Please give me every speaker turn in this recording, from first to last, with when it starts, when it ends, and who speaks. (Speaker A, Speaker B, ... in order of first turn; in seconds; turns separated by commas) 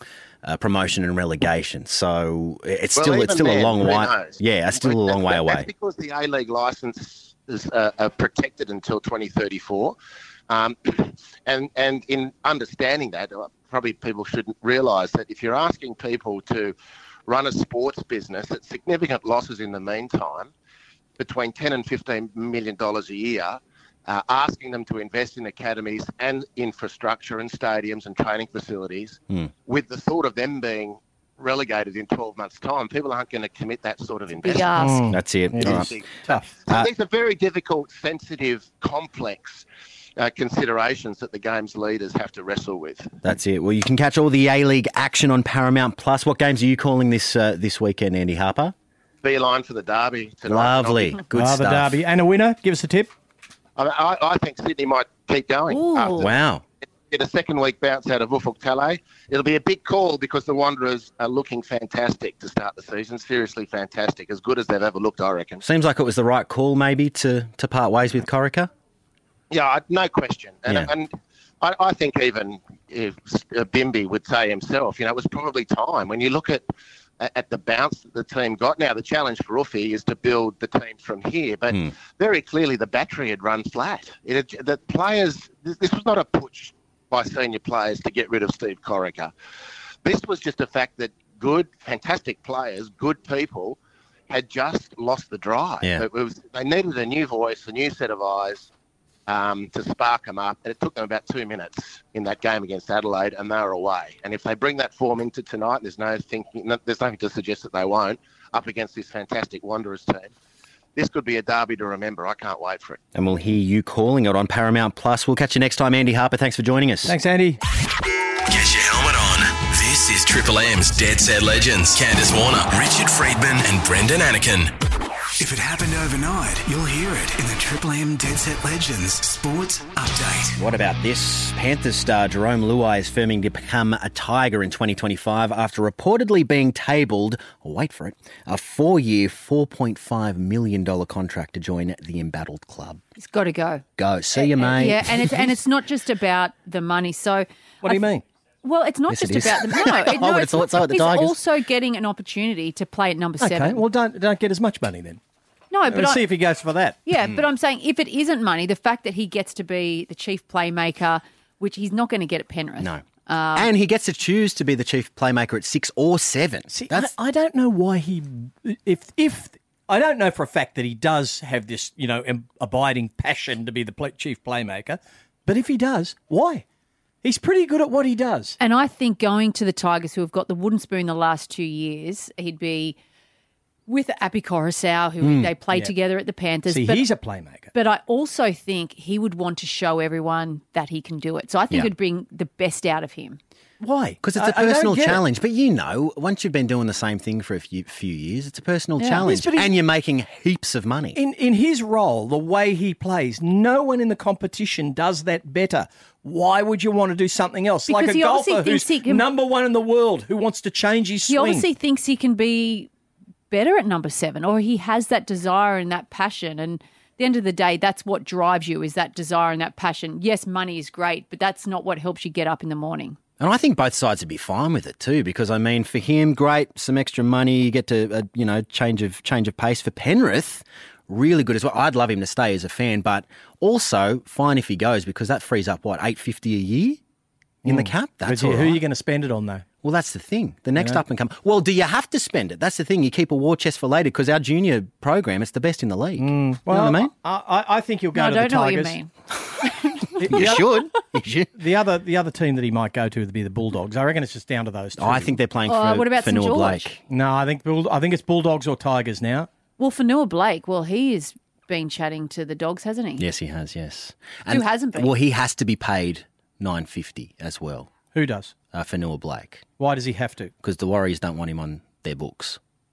Speaker A: 0.4-5.7, Speaker B: 3.0-10.0, Speaker B: 10.5-16.8, Speaker B: 17.3-20.5, Speaker B: 21.2-34.8, Speaker C: 34.4-35.0, Speaker D: 34.8-36.5, Speaker A: 35.1-35.9, Speaker B: 35.6-39.6, Speaker B: 40.2-43.2, Speaker A: 43.2-48.7, Speaker B: 49.2-51.2, Speaker A: 50.5-52.0, Speaker D: 51.3-53.1, Speaker B: 53.8-56.4, Speaker C: 55.7-56.3, Speaker A: 56.2-56.6, Speaker B: 56.9-65.6, Speaker A: 65.6-68.7, Speaker B: 69.5-76.6, Speaker B: 77.2-89.3, Speaker B: 90.0-93.8, Speaker B: 94.3-98.7, Speaker B: 99.3-110.3, Speaker B: 111.0-113.0, Speaker A: 113.2-117.2, Speaker D: 117.1-117.6, Speaker E: 118.5-124.7, Speaker F: 125.4-130.6, Speaker A: 130.6-143.0, Speaker C: 143.2-143.8, Speaker A: 144.0-145.5, Speaker C: 144.4-148.0, Speaker D: 147.8-148.2, Speaker C: 148.6-153.8, Speaker A: 149.1-151.4, Speaker D: 153.4-155.2, Speaker C: 155.7-156.2, Speaker D: 155.9-157.0, Speaker C: 157.1-163.7, Speaker A: 163.6-167.1, Speaker D: 166.7-176.6, Speaker D: 177.2-178.6, Speaker C: 178.6-183.0, Speaker C: 183.9-187.1, Speaker A: 185.2-185.5, Speaker D: 186.7-187.7, Speaker C: 187.7-193.4, Speaker D: 193.8-195.2, Speaker A: 194.2-201.2, Speaker C: 199.0-199.3, Speaker D: 199.2-199.7, Speaker D: 201.2-211.7, Speaker C: 207.9-209.2, Speaker C: 211.3-212.9, Speaker C: 213.5-223.2, Speaker A: 223.4-237.0, Speaker D: 237.6-239.7, Speaker A: 237.7-238.8, Speaker A: 239.8-247.1, Speaker D: 246.2-249.0, Speaker C: 248.2-249.1, Speaker C: 249.6-250.0, Speaker D: 250.2-250.8, Speaker A: 250.2-251.5, Speaker D: 251.6-255.3, Speaker A: 255.0-257.0, Speaker C: 255.7-256.9, Speaker D: 257.1-259.5, Speaker C: 259.8-263.3, Speaker A: 263.2-267.9, Speaker C: 264.5-265.1, Speaker D: 268.1-268.5, Speaker A: 268.7-269.6, Speaker D: 269.8-270.5, Speaker A: 270.6-272.6